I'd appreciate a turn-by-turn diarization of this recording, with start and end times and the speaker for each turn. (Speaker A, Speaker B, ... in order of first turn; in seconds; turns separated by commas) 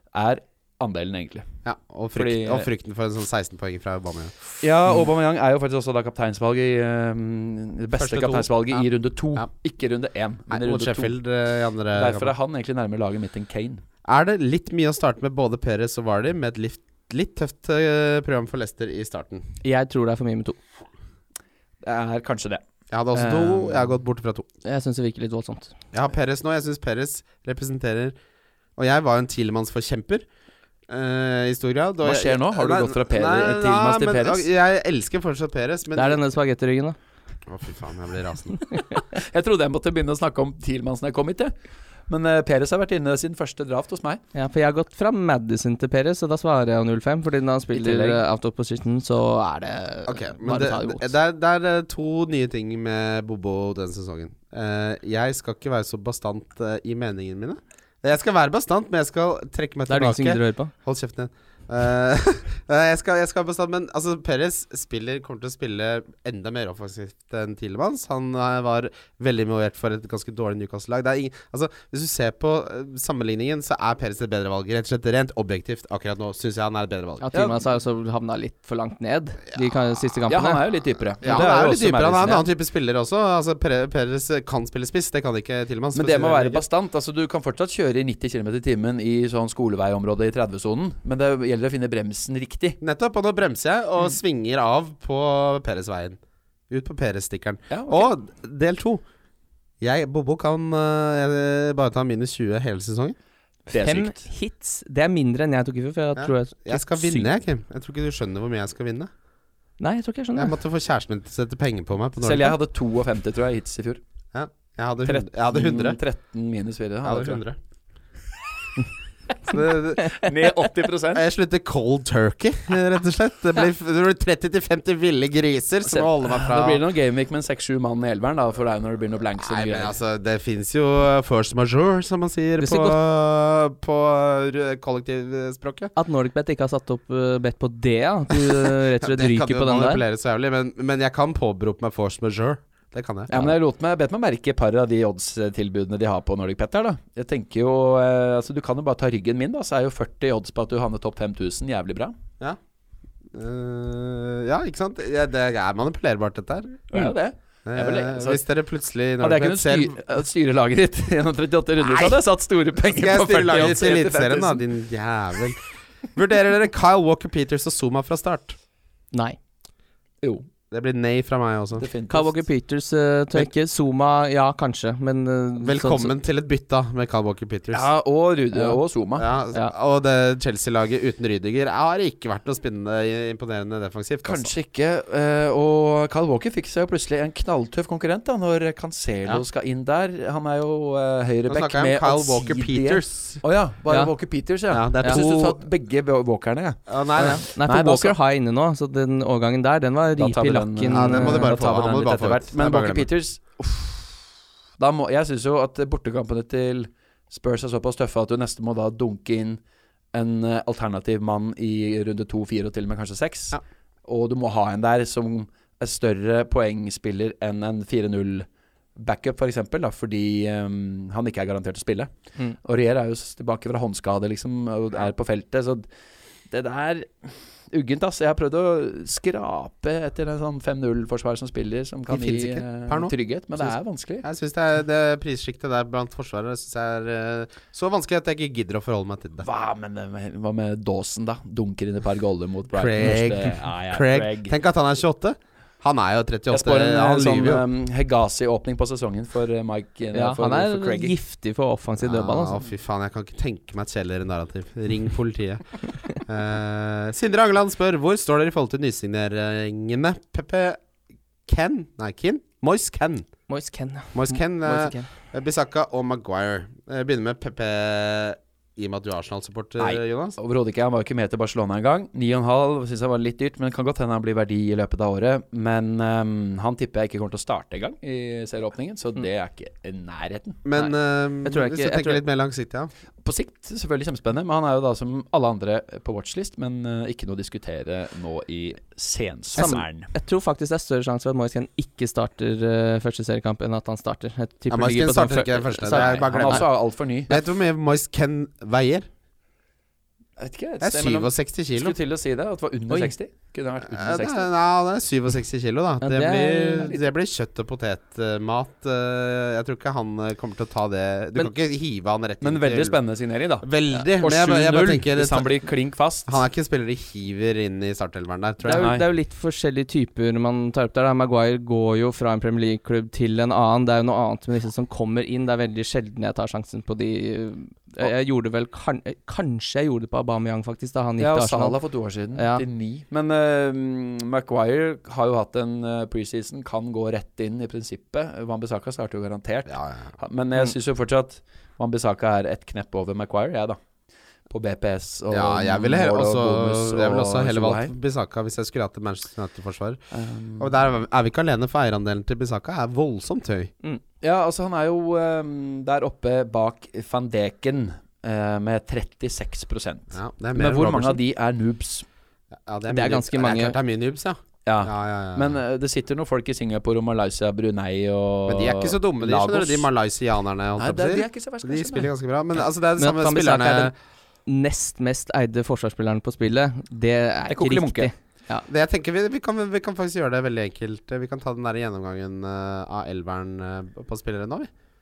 Speaker A: 0.1-1.5, Speaker B: 1.6-4.4, Speaker A: 2.1-2.7, Speaker A: 4.6-11.2, Speaker B: 8.0-9.5, Speaker B: 10.5-12.3, Speaker A: 11.9-13.8, Speaker B: 14.1-19.5, Speaker C: 19.6-20.6, Speaker A: 21.8-22.6, Speaker B: 22.9-24.5, Speaker C: 23.2-23.6, Speaker C: 24.6-25.7, Speaker B: 25.9-28.2, Speaker B: 28.8-30.3, Speaker B: 30.9-36.2, Speaker A: 32.0-34.5, Speaker C: 36.0-37.0, Speaker B: 37.5-38.6, Speaker A: 39.0-41.5, Speaker A: 42.1-44.2, Speaker C: 44.3-51.1, Speaker A: 47.7-48.2, Speaker B: 50.1-77.3, Speaker C: 59.9-60.7, Speaker C: 77.2-80.6, Speaker A: 77.3-77.6, Speaker A: 80.3-82.5, Speaker B: 81.2-86.6, Speaker A: 86.0-92.8, Speaker B: 92.8-96.2, Speaker B: 96.7-99.0, Speaker A: 97.7-98.1, Speaker B: 99.8-103.2, Speaker A: 103.7-104.3, Speaker C: 103.8-107.3, Speaker B: 106.2-109.1, Speaker C: 109.8-110.5, Speaker B: 110.4-112.6, Speaker A: 112.2-114.0, Speaker B: 114.3-116.0, Speaker A: 115.0-117.4, Speaker B: 117.0-117.6, Speaker B: 119.5-120.2, Speaker A: 120.1-121.2, Speaker B: 121.1-126.8, Speaker A: 125.9-129.9, Speaker B: 129.4-135.9, Speaker C: 132.6-133.0, Speaker C: 136.0-140.0, Speaker B: 139.0-143.5, Speaker A: 143.3-152.2, Speaker B: 153.3-157.1, Speaker A: 156.9-158.4, Speaker B: 157.7-160.0, Speaker A: 159.2-164.6, Speaker B: 161.8-162.2, Speaker B: 162.9-165.6, Speaker B: 166.1-168.6, Speaker B: 170.7-171.9, Speaker A: 171.8-172.4, Speaker C: 172.1-176.1, Speaker B: 175.6-177.9, Speaker A: 177.7-179.2, Speaker B: 179.2-184.5, Speaker A: 184.2-198.2, Speaker B: 191.5-193.4, Speaker B: 194.7-195.6, Speaker B: 196.9-197.4, Speaker C: 197.2-201.5, Speaker A: 200.2-204.2, Speaker B: 200.9-203.1, Speaker A: 204.8-209.6, Speaker A: 210.1-222.1, Speaker A: 222.6-225.9, Speaker A: 226.5-234.2, Speaker B: 232.1-239.5, Speaker A: 239.4-244.6, Speaker B: 242.7-247.6, Speaker A: 246.5-251.1, Speaker C: 250.1-252.6, Speaker B: 252.0-260.8, Speaker B: 261.5-263.3, Speaker C: 263.5-265.1, Speaker B: 264.1-270.4, Speaker A: 269.8-280.6, Speaker B: 280.6-282.9, Speaker C: 281.4-282.2, Speaker A: 283.2-290.1, Speaker C: 289.6-296.6, Speaker B: 294.7-296.7, Speaker A: 295.9-297.4, Speaker B: 297.3-299.1, Speaker A: 300.4-304.5, Speaker B: 300.8-302.0, Speaker B: 303.9-313.0, Speaker C: 306.0-307.0, Speaker A: 312.4-316.4, Speaker B: 313.6-315.5, Speaker B: 316.3-318.9, Speaker C: 318.6-331.8, Speaker A: 318.7-319.1, Speaker A: 331.2-343.8, Speaker C: 332.4-332.6, Speaker B: 339.7-340.1, Speaker A: 344.5-347.9, Speaker B: 345.3-350.0, Speaker A: 350.1-350.8, Speaker B: 350.6-353.7, Speaker A: 354.2-362.1, Speaker B: 360.1-361.2, Speaker B: 362.7-365.6, Speaker C: 362.9-363.8, Speaker A: 364.6-369.9, Speaker B: 368.5-373.9, Speaker A: 370.8-372.1, Speaker C: 373.0-373.9, Speaker C: 374.5-378.7, Speaker A: 377.5-378.1, Speaker B: 378.7-384.7